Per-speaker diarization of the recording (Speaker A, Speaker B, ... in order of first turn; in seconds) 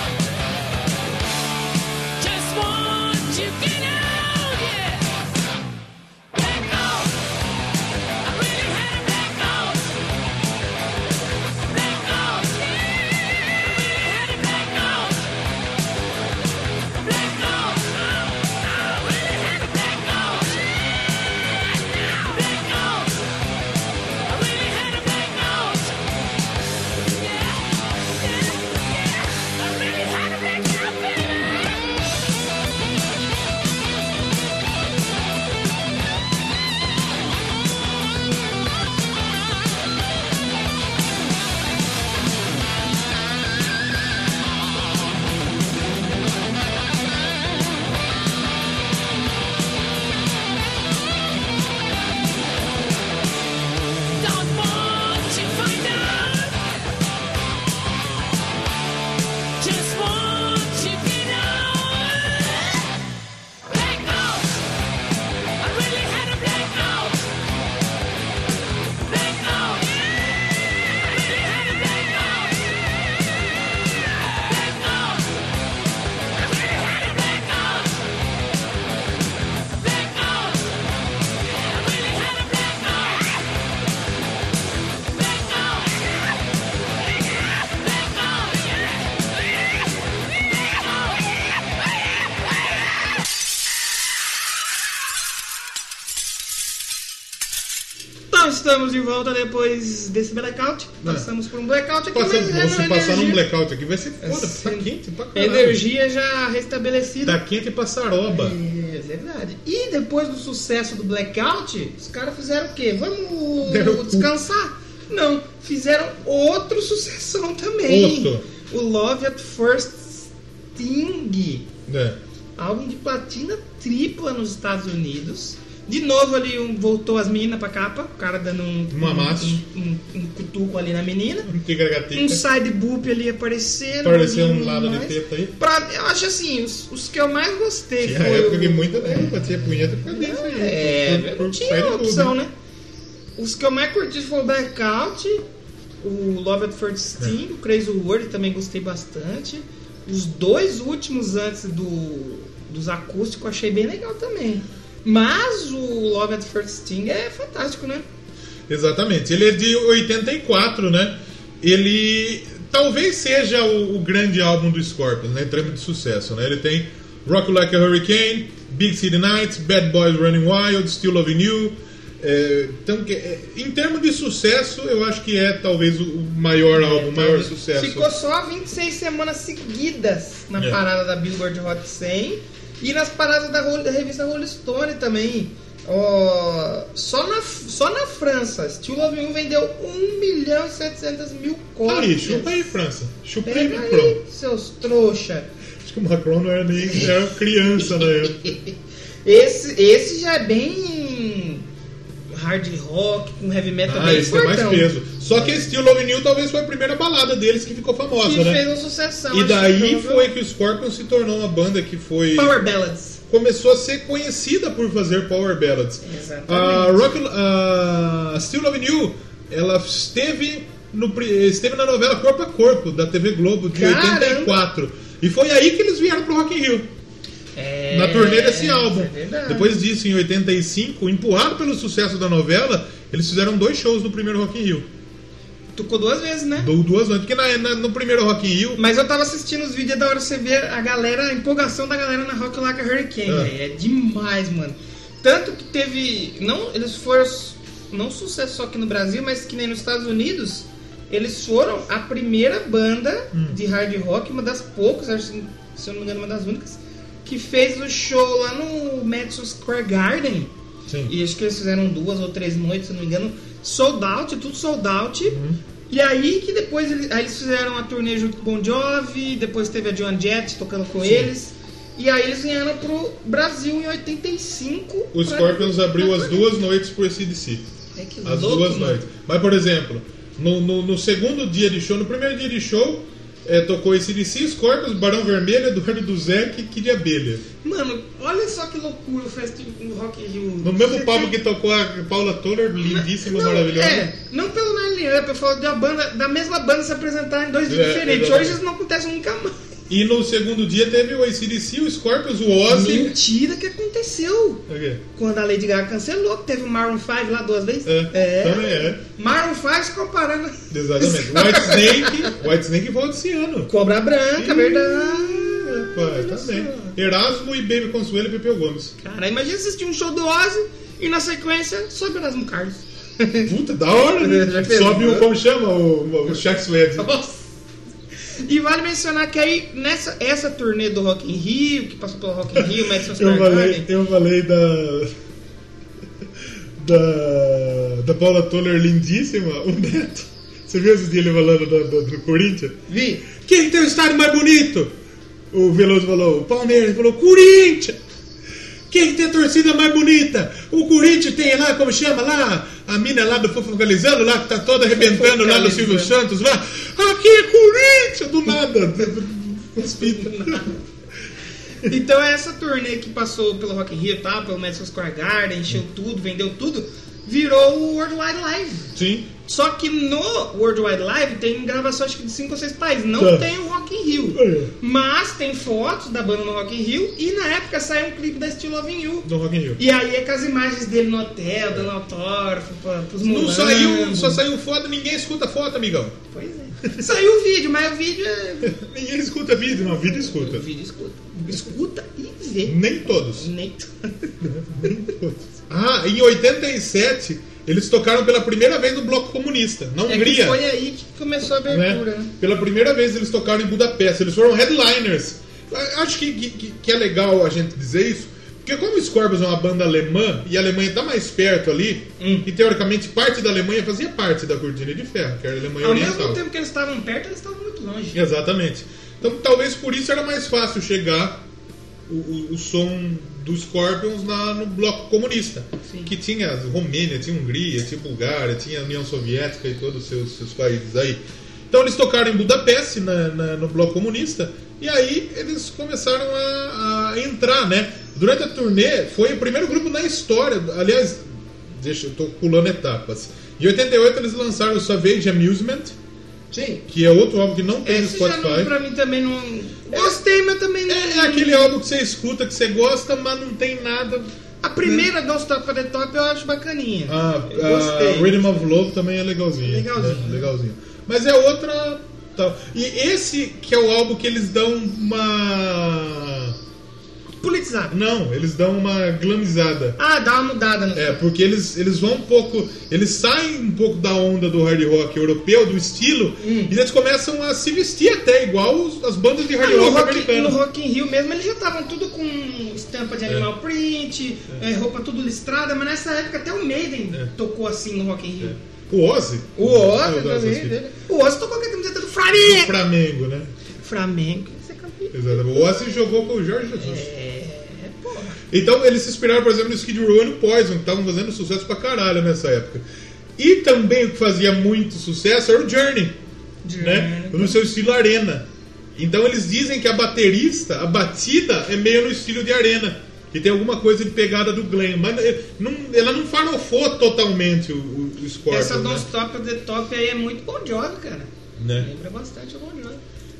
Speaker A: 2.2-5.3, 6.3-7.3, 8.2-10.0, 11.7-15.3, 17.0-23.3, 24.2-26.0, 26.9-31.9, 54.1-56.8, 59.6-62.9, 63.7-64.7, 65.6-67.3, 69.0-73.1, 74.2-75.4, 76.5-78.1, 79.8-80.9, 81.5-83.4, 85.1-86.3, 87.6-89.8, 90.3-91.4
Speaker B: 98.3-103.4, 104.2-107.4, 108.3-121.7, 122.6-131.5, 132.1-139.4, 140.0-142.5, 143.3-145.4, 146.0-158.0, 176.7-192.8, 193.4-195.5, 198.0-198.7, 199.2-201.6, 202.3-204.9, 208.2-210.3, 212.3-213.2, 216.0-217.0, 223.7-224.6, 227.5-229.7, 235.7-236.7, 238.8-260.5, 261.1-265.4, 265.9-276.5, 277.9-279.0, 287.6-291.3, 292.8-299.6, 302.7-304.6, 305.1-312.3, 313.7-316.9, 319.0-325.3, 327.0-327.4, 328.4-333.9, 342.9-343.2, 354.9-356.1, 359.8-360.8, 361.8-368.9, 369.4-384.4, 386.3-388.8, 389.9-395.1, 400.1-402.3, 412.2-412.5, 415.8-418.2, 446.5-446.8, 447.8-451.8, 454.6-458.4, 459.6-460.5, 467.4-467.9, 470.0-471.2, 476.4-476.7, 479.6-488.6, 489.6-492.7, 493.8-496.0, 496.7-498.4, 506.6-507.6, 518.5-523.0
Speaker C: 101.0-101.3, 102.1-105.8, 107.2-108.5, 113.6-114.3, 117.8-118.5, 121.8-122.2, 128.9-129.6, 131.4-132.4, 134.0-135.5, 138.0-142.3, 158.7-178.1, 191.8-194.2, 195.8-198.5, 203.8-208.6, 209.3-212.6, 213.3-226.9, 227.9-234.9, 236.6-238.8, 243.2-243.5, 253.3-253.6, 260.9-261.1, 265.3-265.6, 271.0-271.3, 275.1-277.7, 278.2-287.4, 290.6-294.1, 297.7-298.6, 299.9-303.1, 304.7-305.0, 307.8-309.0, 310.7-313.7, 314.4-318.9, 323.4-327.1, 332.5-335.1, 336.4-342.8, 343.3-344.9, 345.5-348.0, 348.9-360.6, 368.9-369.3, 373.2-373.5, 374.3-374.7, 379.2-379.8, 383.2-386.2, 386.8-387.1, 388.6-390.6, 392.6-393.5, 394.4-400.6, 401.7-416.4, 418.1-421.4, 422.1-445.9, 446.9-448.7, 450.9-454.3, 457.1-466.6, 467.9-470.0, 470.9-480.6, 488.4-490.8, 492.3-493.5, 495.1-497.1, 498.5-502.8, 503.4-506.2, 506.8-519.0, 521.6-521.9